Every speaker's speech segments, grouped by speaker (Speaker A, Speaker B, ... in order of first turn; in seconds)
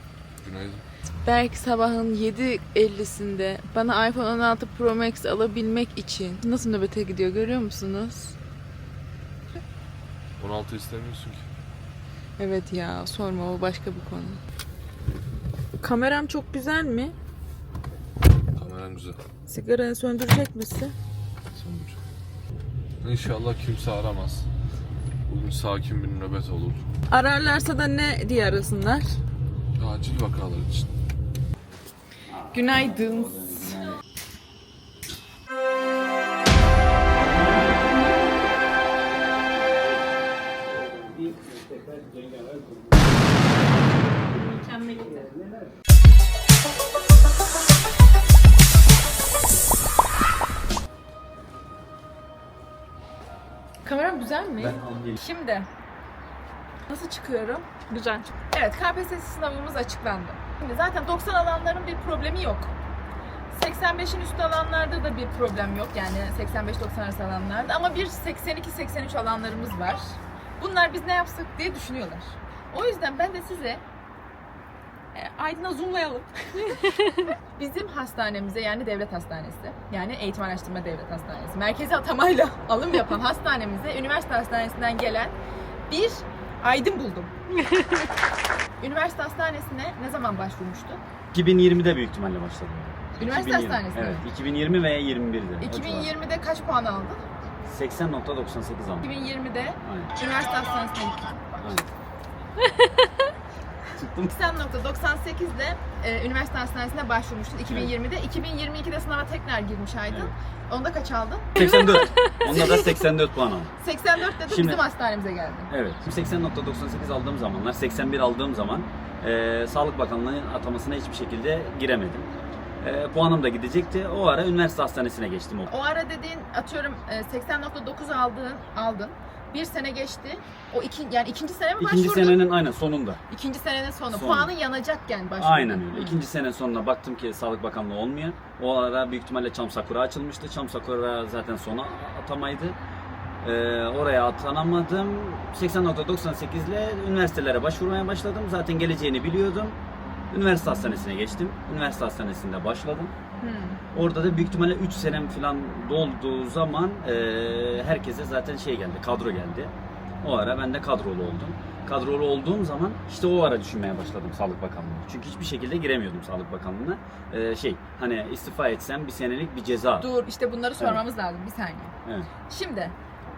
Speaker A: 0.4-0.8, 10.4-11.4, 18.5-19.2, 21.5-22.0, 23.0-24.5, 25.3-26.8, 29.8-30.9
Speaker B: 1.2-8.3, 12.4-14.4, 15.8-17.1, 19.4-20.9, 27.1-29.2, 32.5-33.8, 53.8-55.7, 56.9-62.7, 63.5-73.8, 75.1-85.3, 85.9-87.3, 88.8-91.0, 93.2-94.2, 95.6-97.2, 99.0-101.5, 104.3-112.9, 113.8-115.7, 125.7-132.5, 133.3-136.2, 153.4-153.8, 170.0-171.9, 172.5-172.9
Speaker C: 32.3-34.0, 40.9-41.1, 54.6-55.2, 91.3-96.1, 97.7-99.1, 99.8-100.1, 101.6-101.8, 103.9-104.3, 107.6-107.9, 111.5-113.7, 114.4-114.8, 115.7-122.3, 122.8-125.7, 131.8-133.2, 134.1-134.5, 135.4-142.8, 143.4-149.8, 150.3-153.1, 153.9-170.1